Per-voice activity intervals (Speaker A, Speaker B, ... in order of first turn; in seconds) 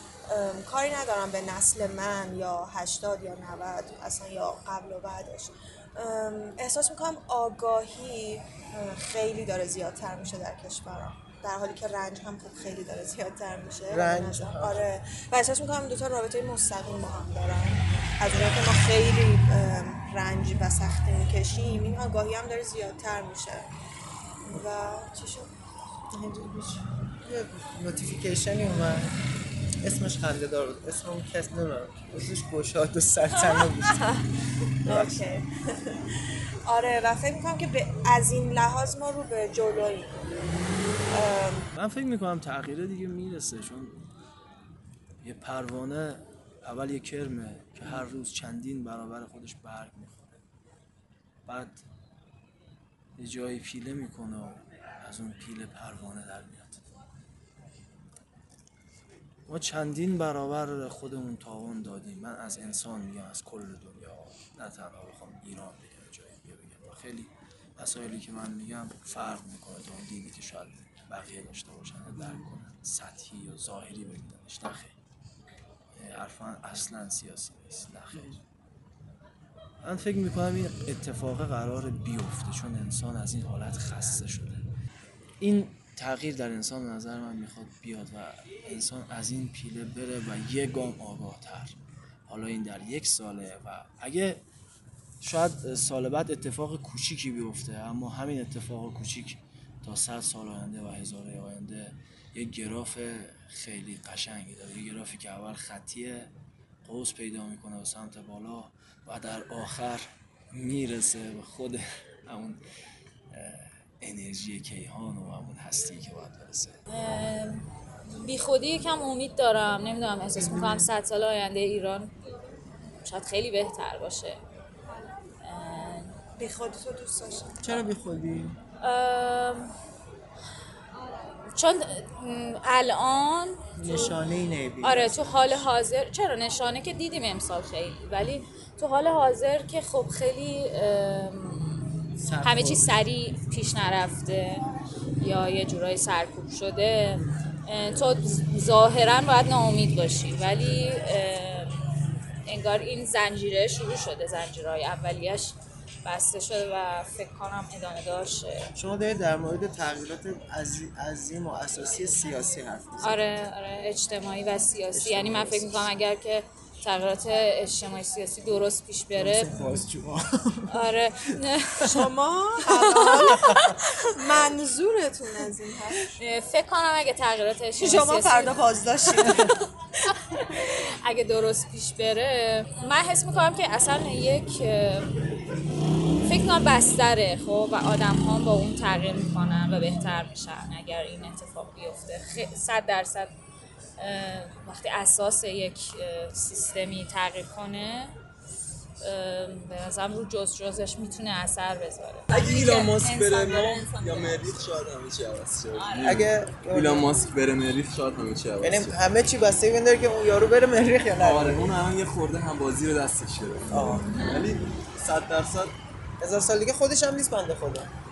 Speaker A: 0.3-23.7, 24.5-25.5, 33.9-34.2, 34.8-35.5, 36.6-40.2, 41.1-41.7, 126.4-127.8, 171.9-176.0, 177.8-179.5
Speaker B: 13.9-14.8, 26.2-29.1, 29.8-34.0, 34.9-35.2, 127.7-128.4, 160.7-161.7, 169.2-170.2
Speaker C: 41.7-44.1, 45.2-50.2, 51.5-51.8, 53.2-56.8, 59.5-74.9, 75.9-78.3, 79.8-84.7, 85.4-91.8, 92.3-94.4, 95.2-106.3, 106.8-112.6, 113.3-116.8
Speaker D: 116.9-122.1, 123.0-124.4, 125.4-126.1, 128.8-129.7, 131.5-134.2, 134.8-141.9, 142.4-144.6, 145.2-151.7, 152.5-158.7, 163.0-169.5, 170.7-172.0, 176.2-178.6, 180.3-185.2, 186.2-193.3, 194.0-198.1, 199.0-204.6, 205.7-206.2, 214.0-214.5
Speaker E: 133.8-135.4, 142.2-142.9, 158.8-163.2, 165.1-165.4, 169.3-169.8, 206.0-207.0, 208.6-211.7, 213.7-214.2, 216.2-217.9
Speaker F: 202.3-209.0, 211.2-215.7